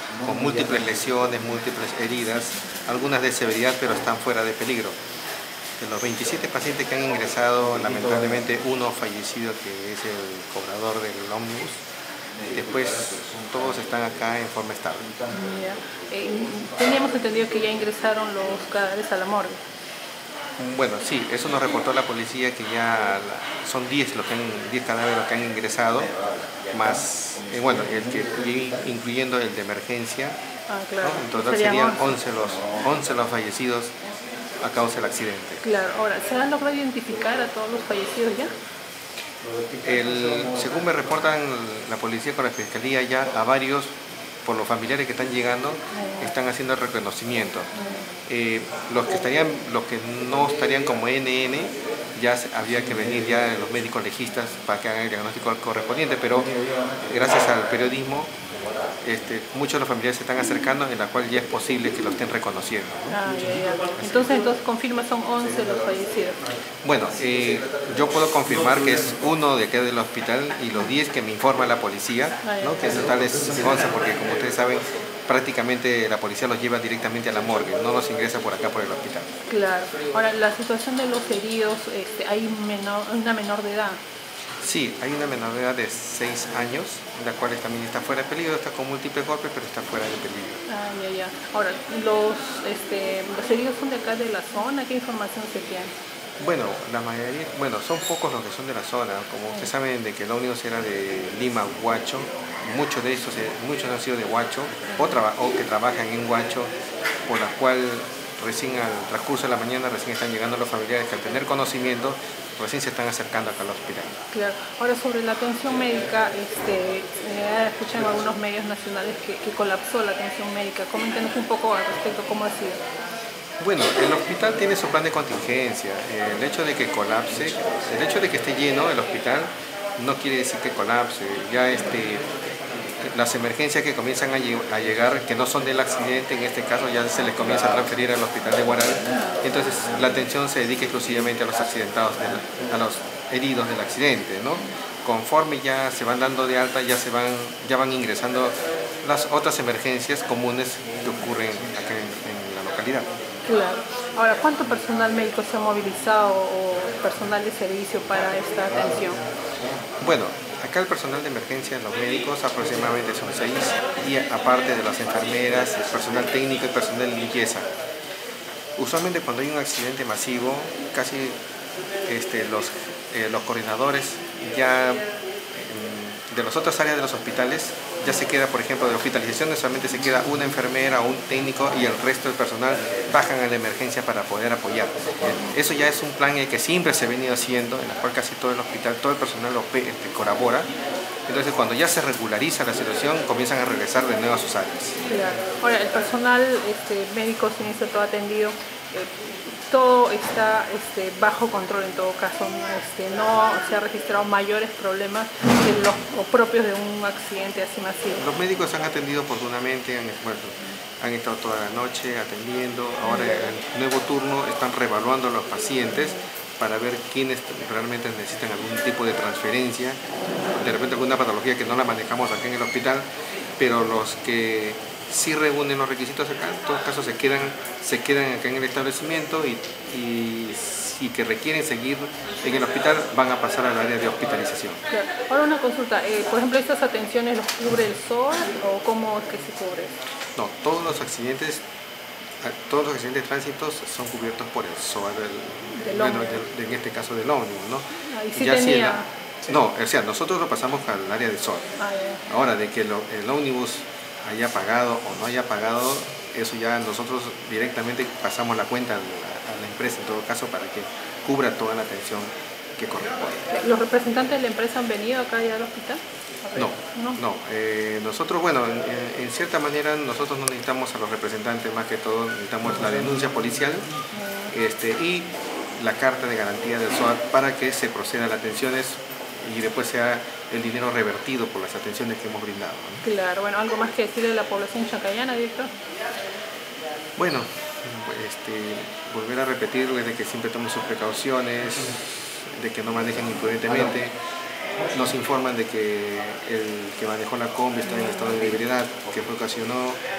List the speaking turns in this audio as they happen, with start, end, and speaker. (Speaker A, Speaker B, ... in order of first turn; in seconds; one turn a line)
Speaker A: 0.2-5.0
Speaker A: 5.8-11.8
Speaker A: 12.4-15.1
Speaker B: 15.3-19.6
Speaker A: 20.6-26.1
Speaker A: 26.7-30.4
Speaker B: 30.7-32.1
Speaker A: 31.0-33.9
Speaker A: 34.6-35.6
Speaker B: 35.6-38.5
Speaker A: 39.8-47.7
Speaker B: 45.9-46.3
Speaker B: 47.8-48.0
Speaker A: 48.3-56.5
Speaker A: 57.0-58.3
Speaker A: 59.0-63.0
Speaker B: 63.1-66.4
Speaker A: 64.0-64.3
Speaker A: 66.8-79.3
Speaker B: 72.4-73.0
Speaker B: 79.5-84.0
Speaker A: 84.6-90.6
Speaker B: 90.7-95.9
Speaker A: 96.4-106.7
Speaker B: 104.9-105.2
Speaker A: 107.3-114.2
Speaker B: 114.3-122.8
Speaker A: 123.6-132.2
Speaker A: 133.0-153.1
Speaker B: 153.4-159.2
Speaker A: 160.0-167.7
Speaker A: 168.8-171.4
Speaker A: 172.0-190.7
Speaker A: 191.3-195.0
Speaker B: 195.1-208.2
Speaker A: 208.2-220.0
Speaker A: 220.5-223.1
Speaker A: 223.6-234.8
Speaker B: 234.9-240.0
Speaker A: 240.3-241.6
Speaker A: 242.4-251.8
Speaker B: 245.8-246.4
Speaker B: 248.1-249.1
Speaker B: 251.8-252.2
Speaker A: 252.3-263.5
Speaker B: 263.5-267.2
Speaker A: 266.6-273.9
Speaker B: 274.1-274.5
Speaker A: 274.5-283.0
Speaker B: 283.0-285.7
Speaker A: 287.2-294.1
Speaker A: 294.9-300.0